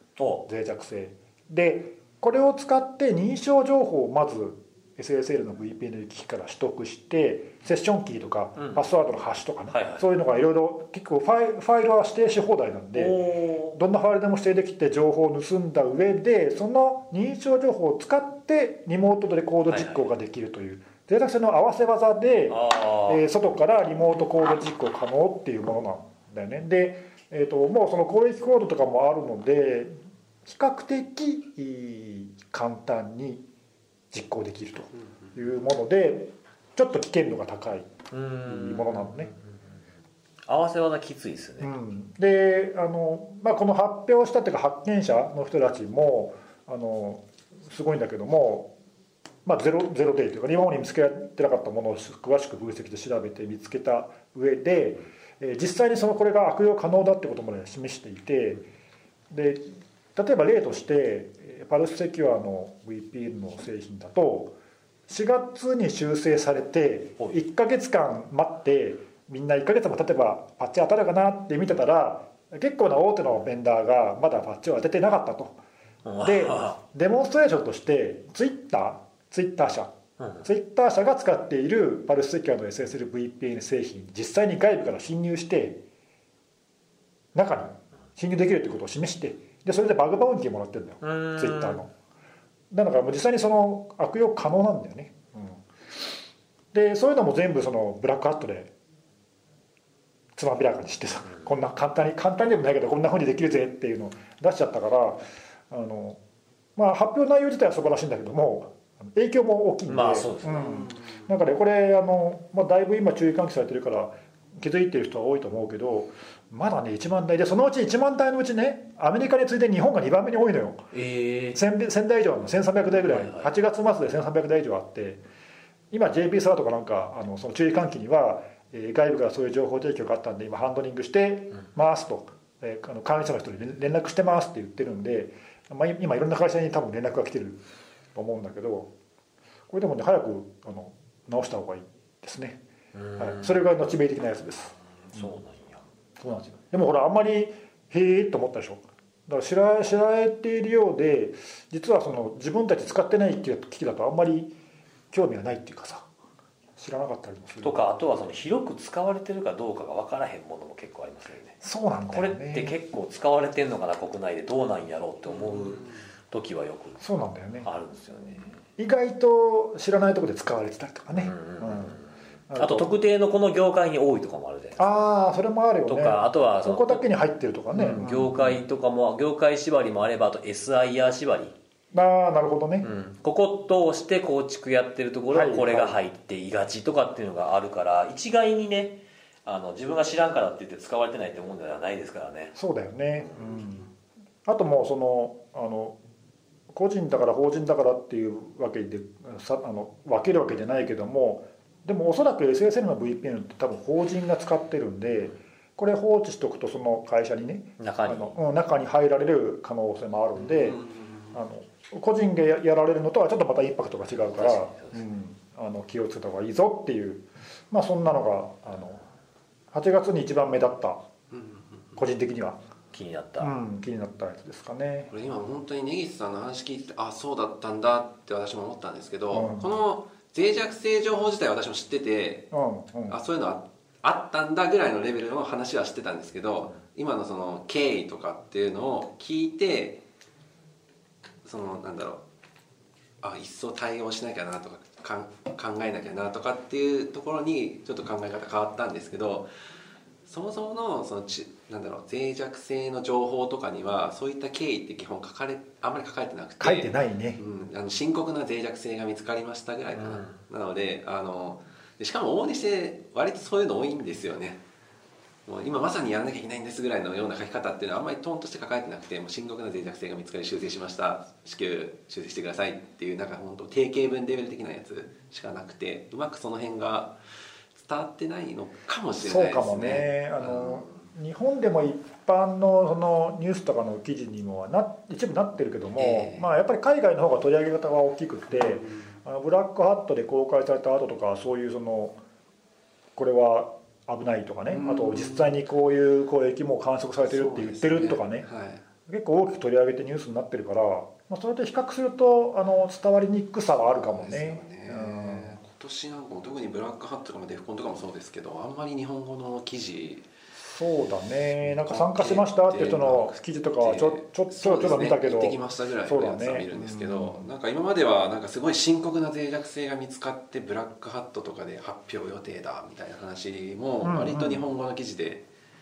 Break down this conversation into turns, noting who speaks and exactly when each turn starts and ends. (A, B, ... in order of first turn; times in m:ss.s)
0:00.2-0:00.4 A
0:00.5-0:13.2 B
0:09.7-0:10.0 A
0:13.0-0:13.8 A
0:13.7-0:29.9 B
0:19.7-0:20.1 A
0:22.5-0:23.2 A
0:30.4-0:33.4 B
0:34.1-0:37.9 B
0:38.1-0:39.4 A
0:38.4-0:39.3 B
0:40.5-0:41.7 A
0:41.6-0:48.7 B
0:49.4-0:58.7 B
0:59.3-1:04.6 B
1:05.1-1:15.6 B
1:16.0-1:16.8 A
1:16.2-1:19.9 B
1:20.2-1:20.5 A
1:20.4-1:25.8 B
1:27.4-1:31.9 B
1:31.0-1:31.8 A
1:32.7-1:35.6 B
1:36.7-1:38.7 B
1:40.4-1:46.2 B
1:46.8-2:00.9 B
1:49.9-1:50.8 A
1:50.6-1:51.3 C
2:00.9-2:01.6 A
2:01.5-2:05.2 B
2:03.0-2:03.5 A
2:05.9-2:17.6 B
2:18.2-2:18.9 B
2:19.7-2:22.6 B
2:22.9-2:23.6 A
2:23.2-2:25.3 B
2:25.1-2:25.8 A
2:26.2-2:34.5 B
2:35.1-2:36.1 B
2:36.8-2:37.8 B
2:37.6-2:41.6 A
2:41.6-2:42.8 B
2:42.1-2:47.0 A
2:45.5-2:45.9 C
2:47.0-2:47.7 B
2:47.6-2:48.6 A
2:48.8-2:52.0 B
2:51.1-2:54.9 A
2:52.5-2:52.9 B
2:54.8-2:58.6 B
2:55.8-2:57.0 A
2:57.7-3:01.6 A
3:01.9-3:02.9 B
3:02.8-3:12.6 A
3:05.3-3:06.0 B
3:12.6-3:13.9 B
3:14.5-3:16.0 B
3:16.7-3:30.8 B
3:27.8-3:28.4 A
3:30.5-3:31.3 C
3:31.3-3:39.1 B
3:34.2-3:35.0 A
3:39.7-3:41.0 B
3:41.3-3:42.0 C
3:42.0-3:42.6 B
3:42.9-3:43.5 A
3:43.4-3:45.1 B
3:45.1-3:52.5 C
3:49.3-3:49.7 B
3:52.5-3:53.2 B
3:53.1-4:00.0 C
4:01.4-4:02.2 C
4:03.2-4:09.5 C
4:10.3-4:24.6 C
4:16.6-4:17.4 B
4:25.5-4:37.2 C
4:37.7-4:41.0 C
4:39.2-4:52.2 B
4:46.0-4:46.5 C
4:48.5-4:49.1 C
4:53.2-4:58.5 B
4:54.7-4:55.6 C
4:57.3-4:58.8 C
4:59.1-5:05.6 B
5:04.0-5:10.3 C
5:10.6-5:17.5 B
5:11.6-5:25.4 C
5:24.0-5:24.7 B